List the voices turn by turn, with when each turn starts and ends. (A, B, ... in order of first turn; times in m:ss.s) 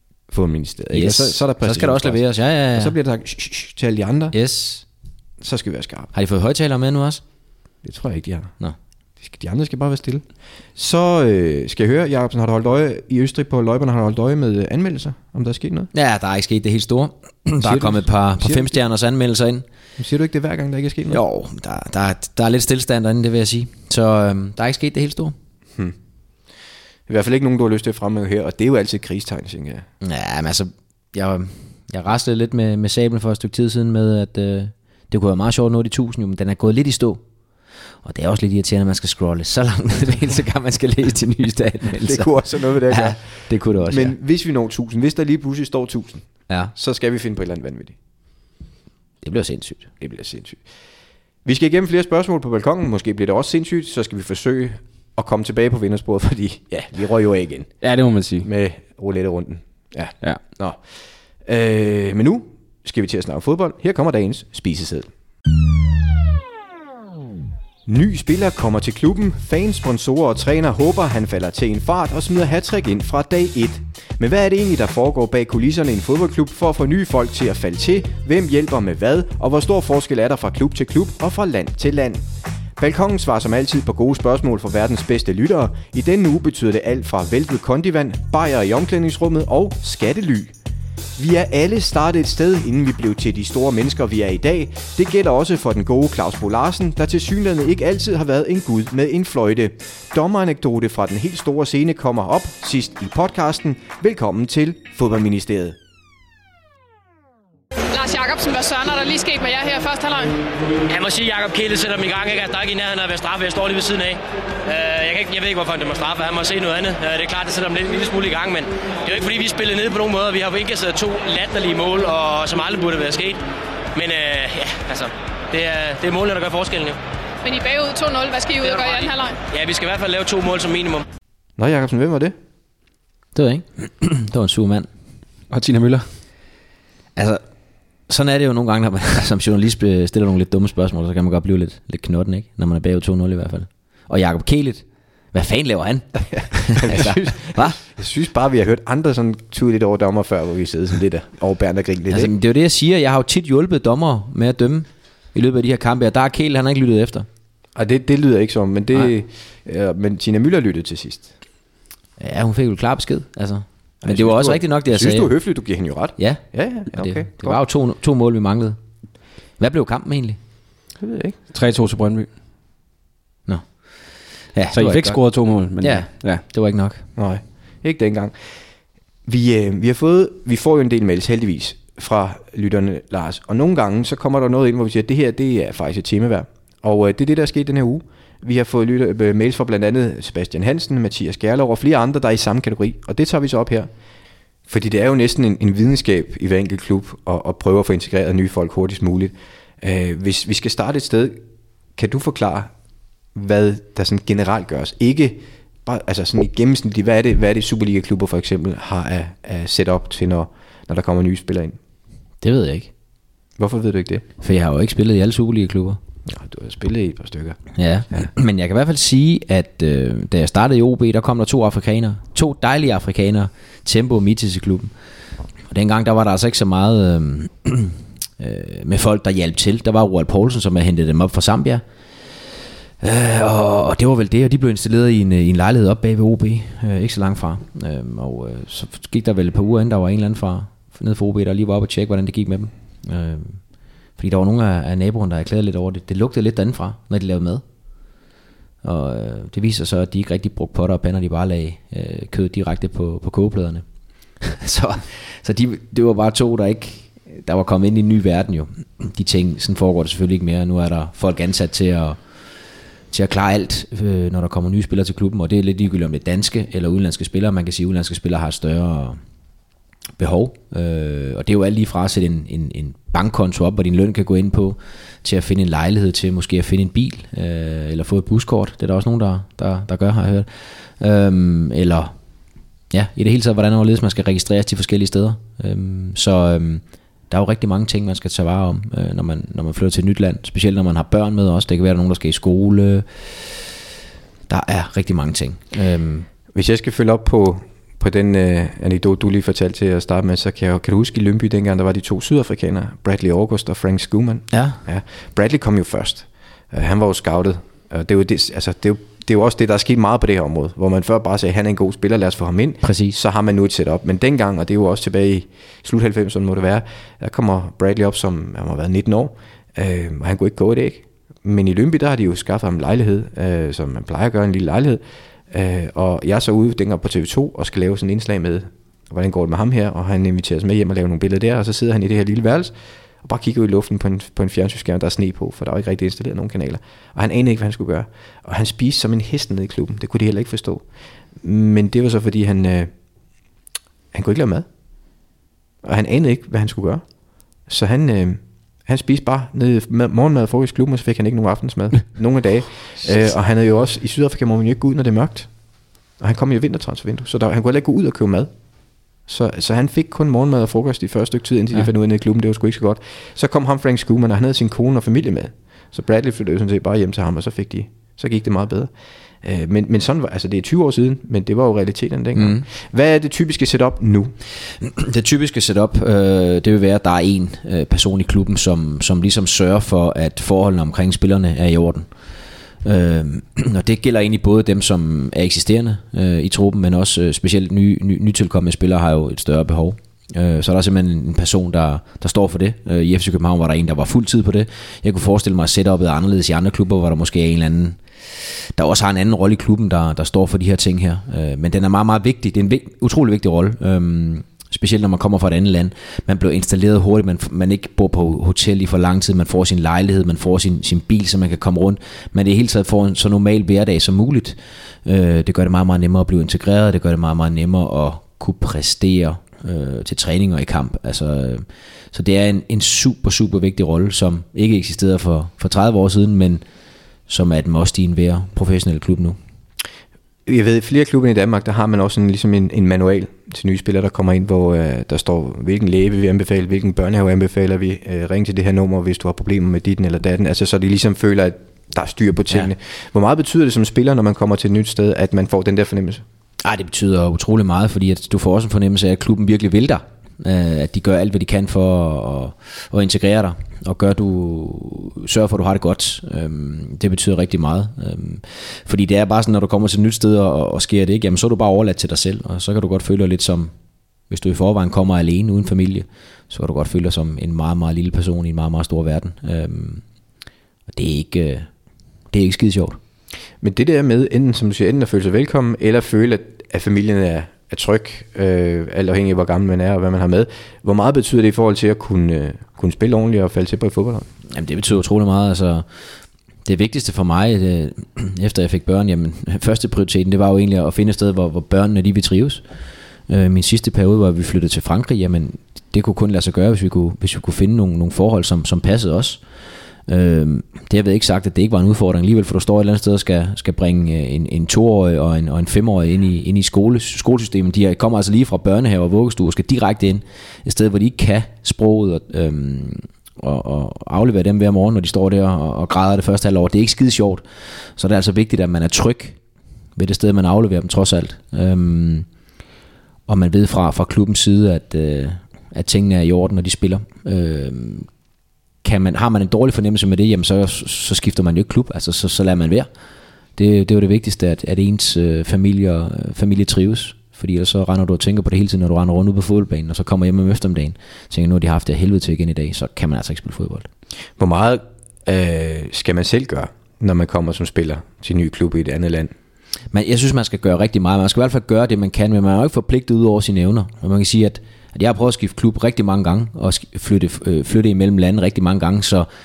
0:00.3-0:04.4 A
0:00.9-0:03.0 B
0:04.3-0:04.8 B
0:05.4-0:06.1 A
0:06.1-0:07.2 B
0:07.8-0:08.5 A
0:09.2-0:10.2 A
0:10.8-0:15.9 A
0:15.9-0:19.6 B
0:17.6-0:18.8 A
0:20.0-0:21.2 A
0:21.1-0:25.4 B
0:27.1-0:29.8 A
0:30.0-0:37.2 B
0:38.0-0:44.2 B
0:42.0-0:48.0 A
0:49.2-0:49.9 B
0:50.0-0:50.6 A
0:51.4-0:57.7 A
0:57.8-0:58.5 C
0:58.4-1:00.8 A
1:01.4-1:05.1 A
1:07.9-1:22.2 A
1:22.8-1:30.5 A
1:31.2-1:45.8 A
1:47.9-1:50.4 D
1:50.9-2:03.4 E
2:03.9-2:07.0 E
2:07.4-2:09.4 D
2:08.6-2:11.0 E
2:11.6-2:12.4 A
2:13.4-2:14.9 B
2:15.5-2:16.0 C
2:17.2-2:17.4 B
2:18.1-2:27.8 B
2:26.3-2:32.3 A
2:32.1-2:37.3 B
2:37.8-2:41.3 A
2:42.2-2:45.3 B
2:44.0-2:47.6 A
2:46.2-2:48.8 B
2:49.6-2:50.4 B
2:51.0-2:51.4 A
2:51.5-2:52.3 C
2:54.5-2:55.2 B
2:54.7-2:56.4 C
2:55.8-2:57.0 B
2:57.2-2:58.3 A
2:59.2-3:13.9 A
3:14.7-3:21.4 A
3:22.0-3:22.7 A
3:23.3-3:31.8 A
3:32.4-3:32.9 B
3:33.6-3:34.2 A
3:34.4-3:36.0 B
3:36.3-3:37.6 A
3:37.7-3:44.9 B
3:45.7-3:51.8 B
3:53.0-4:03.6 B
4:04.2-4:07.6 B
4:08.8-4:13.8 B
4:14.4-4:22.2 B
4:23.1-4:29.2 B
4:30.2-4:40.5 B
4:41.0-4:42.1 B
4:42.9-4:53.6 B
4:54.5-4:56.3 B
4:56.5-5:40.8 A
5:04.5-5:04.8 B
5:12.8-5:13.2 B
5:41.4-5:42.9 A
5:44.1-5:44.7 A
5:45.8-5:47.0 A
5:47.7-5:55.5 A
5:56.2-5:58.5 A
5:59.3-6:14.3 A
6:12.4-6:12.6 B
6:14.8-6:22.1 B
6:22.8-6:38.0 B
6:38.8-7:06.6 B
7:07.3-7:09.4 B
7:10.4-7:26.2 A
7:26.6-7:43.7 B
7:44.3-7:50.0 B
7:50.9-7:51.7 B
7:52.3-7:53.0 B
7:53.6-8:04.3 A
8:04.5-8:05.8 B
8:06.6-8:12.6 B
8:13.3-8:19.4 B
8:20.1-8:37.4 B
8:38.0-8:39.4 B
8:40.0-8:42.3 B
8:43.3-8:48.1 B
8:48.8-8:52.9 B
8:53.6-9:03.9 B
9:04.4-9:09.3 A
9:09.9-9:19.3 B